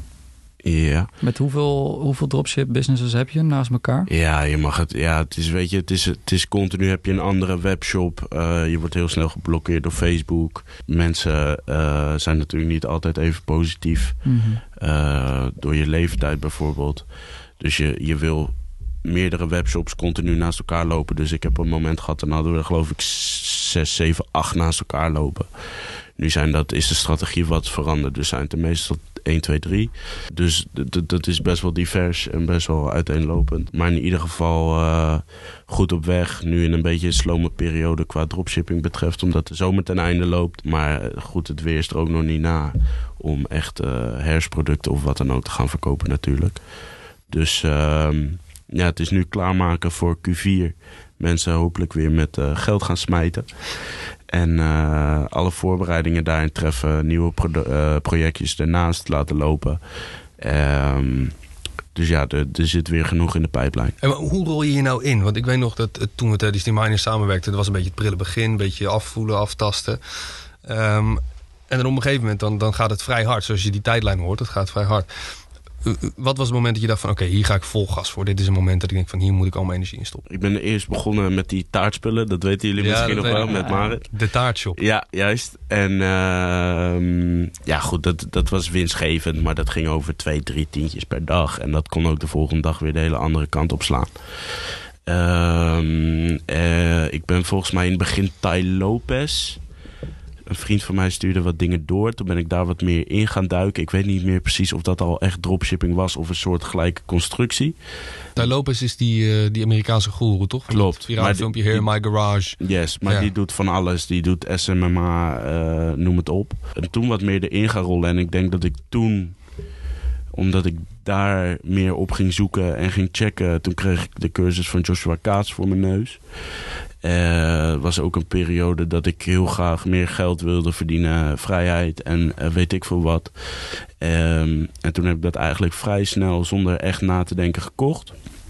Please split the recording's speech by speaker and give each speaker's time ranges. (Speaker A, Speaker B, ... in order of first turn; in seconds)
Speaker A: 0.6-1.1, 4.1-46.7, 47.2-61.3, 61.9-64.0, 80.3-99.6, 100.5-107.8, 110.7-119.4, 120.3-138.2
Speaker B: 1.2-4.1, 14.2-14.6, 82.9-83.9
Speaker C: 64.0-80.2, 82.8-84.8, 108.4-113.3